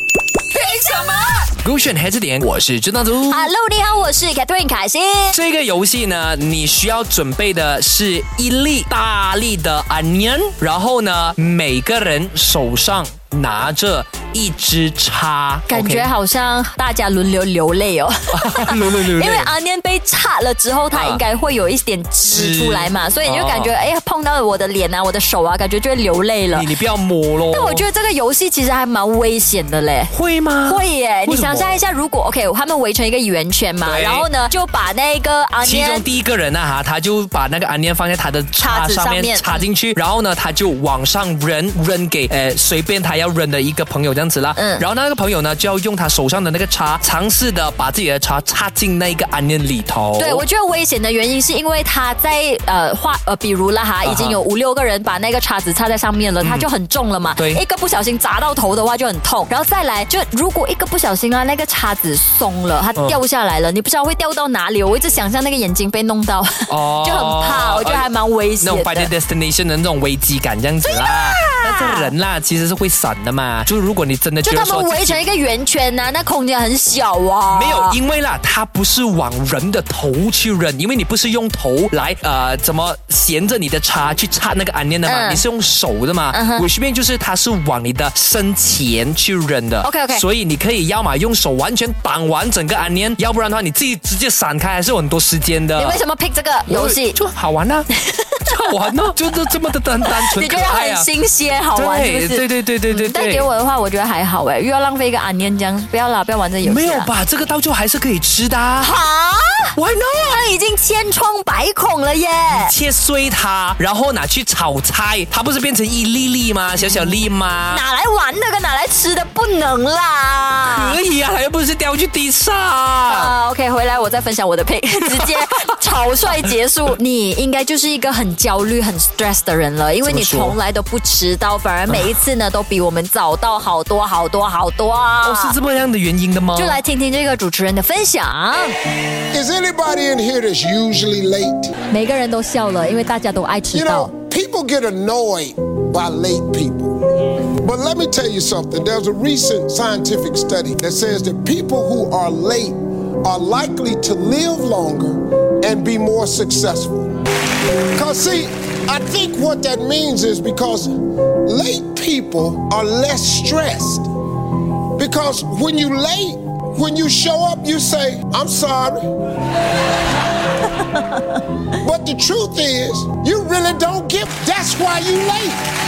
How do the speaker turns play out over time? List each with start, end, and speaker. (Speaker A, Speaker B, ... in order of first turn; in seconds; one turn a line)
Speaker A: 0.5-1.5
Speaker B: 1.6-3.5
Speaker A: 3.2-5.4
Speaker B: 5.3-16.1
Speaker A: 15.7-26.7
Speaker B: 18.3-19.5
Speaker B: 20.9-21.2
Speaker B: 22.3-23.7
Speaker B: 26.5-27.8
Speaker A: 27.5-30.1
Speaker B: 30.1-31.8
Speaker A: 30.6-36.0
Speaker B: 33.8-34.2
Speaker B: 35.6-50.4
Speaker A: 38.6-39.7
Speaker A: 44.5-44.8
Speaker A: 50.2-69.1
Speaker B: 54.0-54.4
Speaker B: 56.4-56.7
Speaker B: 66.7-68.1
Speaker B: 68.6-75.2
Speaker A: 70.9-72.1
Speaker A: 74.4-78.0
Speaker B: 77.5-96.0
Speaker A: 85.0-85.4
Speaker A: 86.3-86.7
Speaker A: 89.8-90.2
Speaker A: 95.8-97.2
Speaker B: 96.7-97.9
Speaker A: 97.9-98.7
Speaker B: 98.5-101.1
Speaker A: 100.0-107.1
Speaker B: 101.7-103.5
Speaker B: 106.6-108.9
Speaker A: 108.8-112.7
Speaker B: 109.8-110.4
Speaker B: 112.5-117.8
Speaker A: 116.8-121.0
Speaker B: 120.6-123.3
Speaker A: 123.1-135.6
Speaker B: 130.0-130.6
Speaker B: 135.2-136.8
Speaker A: 136.5-138.8
Speaker C: 139.3-141.7
Speaker A: 141.9-144.1
Speaker C: 143.7-157.1
Speaker C: 157.9-164.1
Speaker C: 164.9-169.1
Speaker A: 170.8-171.2
Speaker C: 171.8-175.6